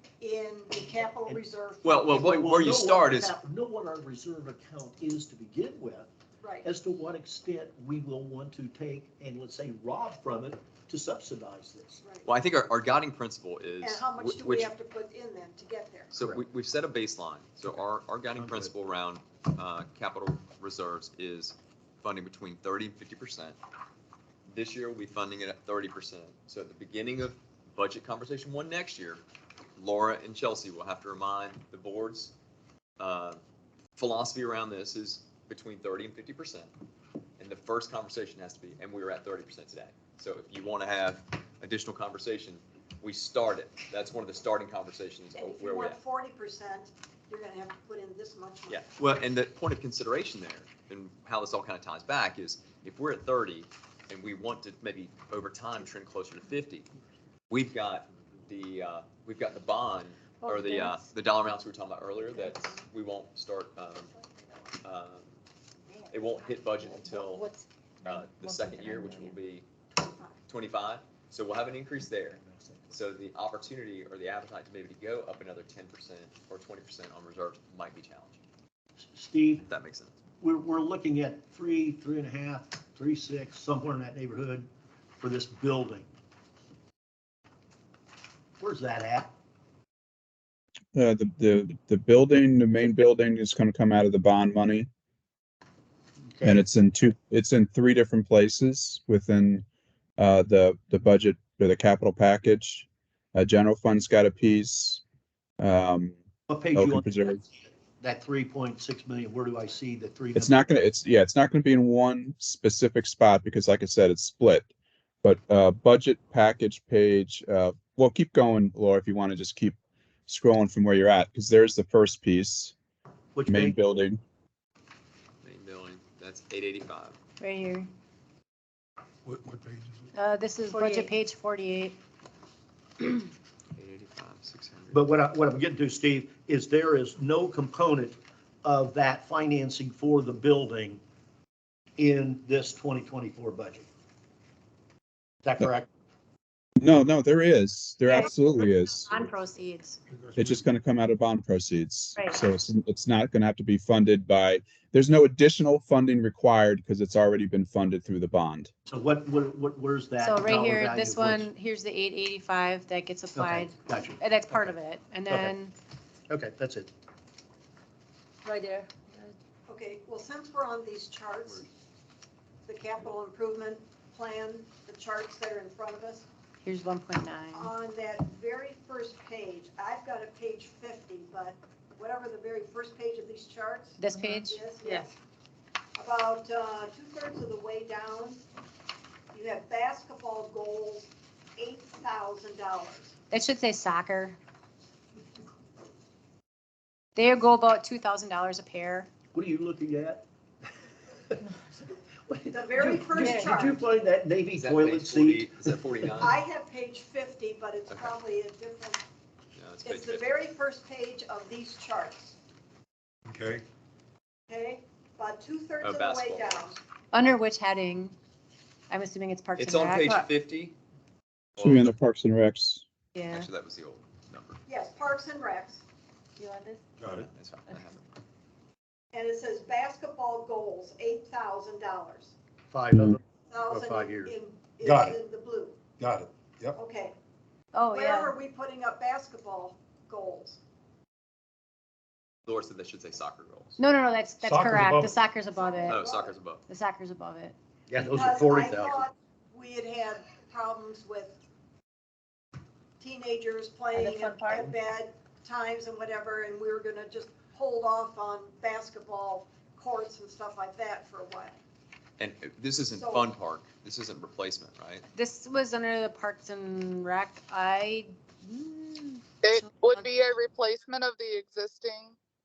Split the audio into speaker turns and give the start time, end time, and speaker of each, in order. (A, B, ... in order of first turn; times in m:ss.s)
0:00.2-0:02.3 A
0:01.8-0:03.4 B
0:02.1-0:06.1 C
0:06.4-0:06.7 A
0:06.6-0:12.0 C
0:12.0-0:12.3 A
0:12.2-0:14.7 B
0:13.8-0:16.1 A
0:16.1-0:23.6 B
0:18.3-0:18.7 C
0:24.5-0:29.2 B
0:29.8-0:32.3 B
0:33.0-0:33.4 B
0:34.0-0:36.7 B
0:37.4-0:46.0 B
0:45.3-0:48.8 A
0:48.7-0:56.9 B
0:57.5-1:04.1 B
1:00.7-1:01.0 D
1:04.8-1:05.4 B
1:05.8-1:06.4 A
1:06.1-1:07.5 B
1:07.0-1:07.5 D
1:08.0-1:09.6 B
1:08.4-1:09.2 D
1:09.9-1:10.4 A
1:10.5-1:18.4 B
1:12.3-1:13.0 C
1:19.0-1:19.6 C
1:19.6-1:20.1 B
1:20.4-1:26.1 C
1:28.6-1:29.3 C
1:30.9-1:34.9 E
1:36.3-1:36.6 C
1:36.4-1:39.6 E
1:40.2-1:45.0 E
1:45.6-1:46.2 E
1:46.5-1:50.7 C
1:46.7-1:47.4 E
1:50.3-1:54.7 E
1:55.2-2:02.7 E
2:03.3-2:03.8 C
2:03.5-2:04.2 E
2:05.4-2:07.2 B
2:07.4-2:07.9 D
2:09.2-2:10.1 F
2:10.1-2:12.0 D
2:10.7-2:11.1 G
2:13.7-2:15.1 B
2:14.9-2:21.0 C
2:22.0-2:23.9 C
2:25.4-2:25.9 C
2:26.8-2:29.1 E
2:28.1-2:30.0 D
2:30.4-2:38.7 E
2:38.9-2:41.5 C
2:40.2-2:45.7 D
2:43.3-2:44.7 C
2:45.3-2:45.6 C
2:46.3-2:46.9 C
2:48.5-2:49.3 G
2:49.7-2:51.7 A
2:52.6-2:56.3 A
2:56.6-2:57.7 D
2:57.5-3:05.1 A
3:04.0-3:04.6 D
3:06.0-3:08.4 A
3:09.3-3:13.2 A
3:13.3-3:14.4 D
3:17.2-3:19.1 D
3:19.3-3:20.2 C
3:22.3-3:26.1 C
3:22.5-3:23.8 A
3:24.6-3:26.4 B
3:26.2-3:29.0 A
3:27.9-3:28.2 B
3:29.6-3:30.3 B
3:29.8-3:32.4 A
3:33.3-3:33.6 F
3:34.5-3:36.8 A
3:35.8-3:36.6 B
3:37.1-3:38.2 D
3:38.9-3:40.3 D
3:39.6-3:40.8 B
3:41.6-3:41.9 B
3:41.6-3:42.8 E
3:43.1-3:43.5 D
3:43.3-3:44.6 B
3:44.6-3:45.8 A
3:47.0-3:47.3 F
3:47.1-3:48.1 B
3:49.1-3:52.3 A
3:52.7-3:54.3 C
3:53.5-3:55.8 A
3:54.8-3:55.1 C
3:56.0-3:56.8 F
3:56.7-3:57.2 A
3:57.7-3:58.4 D
3:57.9-4:00.6 A
4:02.4-4:03.8 B
4:03.8-4:06.0 D
4:04.4-4:05.2 F
4:05.5-4:06.4 A
4:05.8-4:06.6 B
4:06.6-4:07.5 D
4:07.9-4:09.0 C
4:08.0-4:11.4 A
4:13.0-4:21.6 A
4:13.9-4:14.7 G
4:22.2-4:25.0 B
4:22.9-4:23.3 A
4:25.1-4:30.1 D
4:29.4-4:32.2 H